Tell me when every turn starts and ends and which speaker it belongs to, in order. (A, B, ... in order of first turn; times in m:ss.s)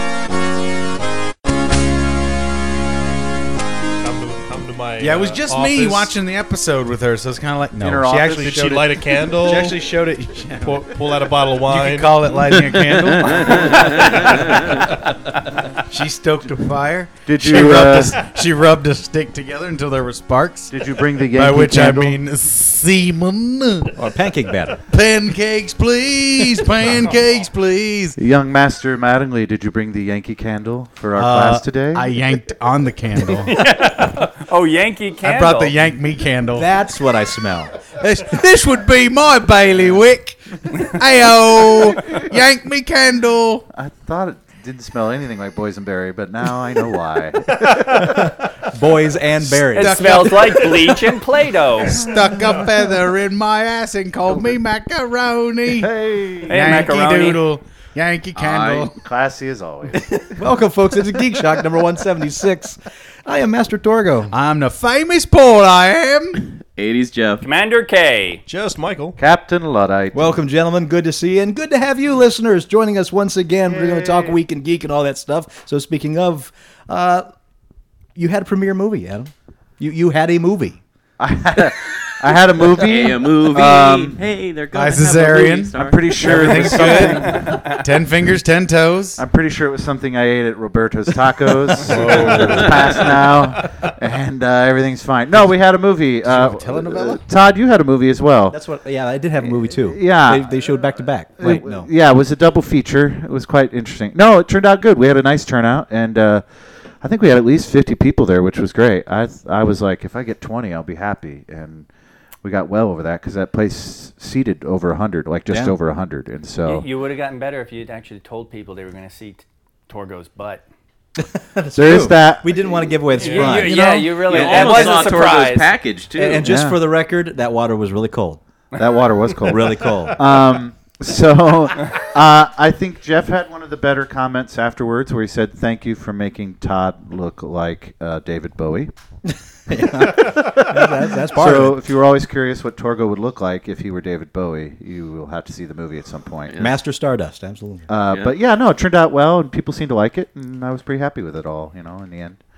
0:04.0-0:06.2 A
0:05.0-0:15.1 B
0:07.8-0:08.8 C
0:08.4-0:09.9 A
0:10.6-0:12.3 A
0:13.0-0:14.8 D
0:15.7-0:24.0 B
0:17.3-0:18.2 C
0:20.7-0:22.2 C
0:24.0-0:24.8 E
0:24.8-0:28.2 B
0:28.2-0:32.1 C
0:31.2-0:33.7 B
0:33.4-0:35.8 F
0:35.2-0:36.7 B
0:36.5-0:37.8 E
0:37.9-0:43.7 B
0:43.7-0:48.3 C
0:47.9-0:50.1 E
0:49.4-0:51.2 B
0:49.7-0:52.1 F
0:51.8-0:55.9 B
0:55.7-0:56.6 C
0:56.5-0:57.4 F
0:56.5-0:58.9 B
0:58.4-0:58.9 D
0:59.0-1:00.4 C
1:00.2-1:04.3 E
1:04.3-1:06.5 B
1:06.6-1:07.4 D
1:07.4-1:08.4 F
1:08.5-1:09.2 A
1:09.2-1:10.4 C
1:10.1-1:17.3 E
1:13.7-1:14.4 A
1:18.2-1:20.8 E
1:21.2-1:24.2 C
1:22.7-1:26.8 D
1:24.7-1:29.2 B
1:25.8-1:27.8 C
1:27.3-1:27.6 F
1:29.2-1:38.6 C
1:31.9-1:32.3 B
1:31.9-1:33.1 A
1:32.4-1:32.8 D
1:35.3-1:35.6 B
1:36.2-1:37.2 B
1:38.5-1:41.9 E
1:39.4-1:46.5 C
1:47.0-1:51.9 C
1:52.4-1:56.9 C
1:55.5-1:55.8 E
1:56.6-2:00.6 F
2:01.2-2:05.1 E
2:01.8-2:03.0 C
2:03.2-2:03.7 A
2:03.2-2:05.7 F
2:04.2-2:06.5 D
2:06.2-2:08.4 E
2:06.4-2:06.8 C
2:08.8-2:18.9 C
2:09.4-2:10.4 E
2:19.3-2:21.8 E
2:20.0-2:26.6 C
2:26.5-2:26.7 D
2:26.6-2:27.9 E
2:27.9-2:32.4 C
2:28.1-2:28.4 D